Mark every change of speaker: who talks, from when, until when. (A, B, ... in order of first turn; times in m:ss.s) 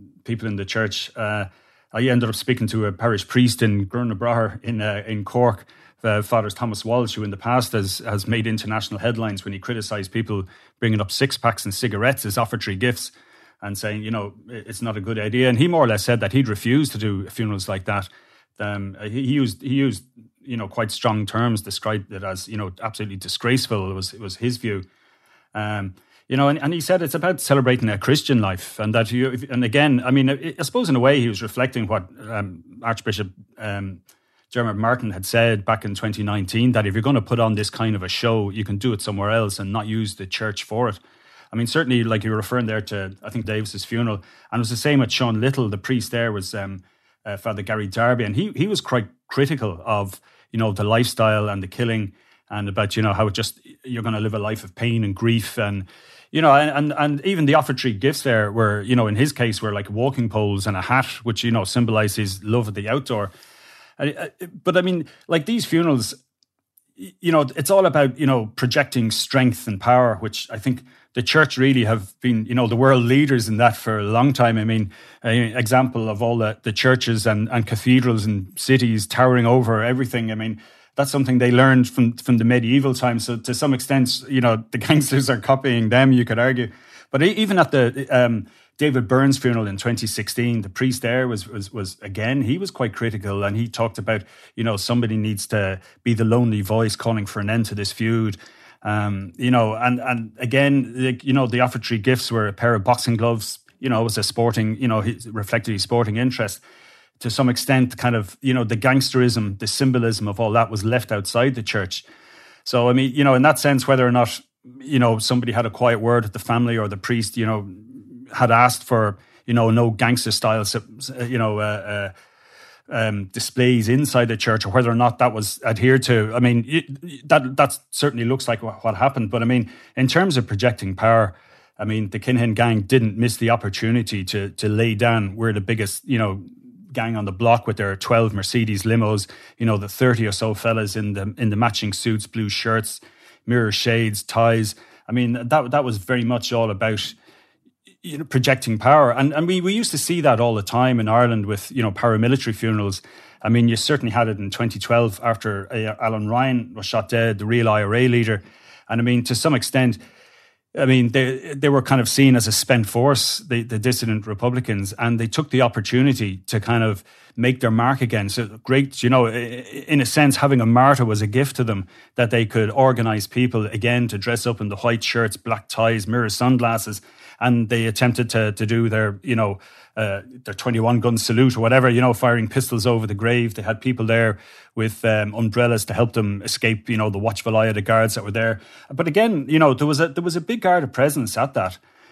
0:00.2-0:24.8 A
0:25.5-0:34.0 A
0:34.5-0:41.0 A
0:41.5-1:03.3 A
1:04.0-1:06.2 A
1:07.0-1:46.6 A
1:47.2-1:52.0 A
1:52.6-2:02.1 A
2:02.9-2:27.1 A
2:28.0-2:40.0 A
2:40.7-3:11.8 A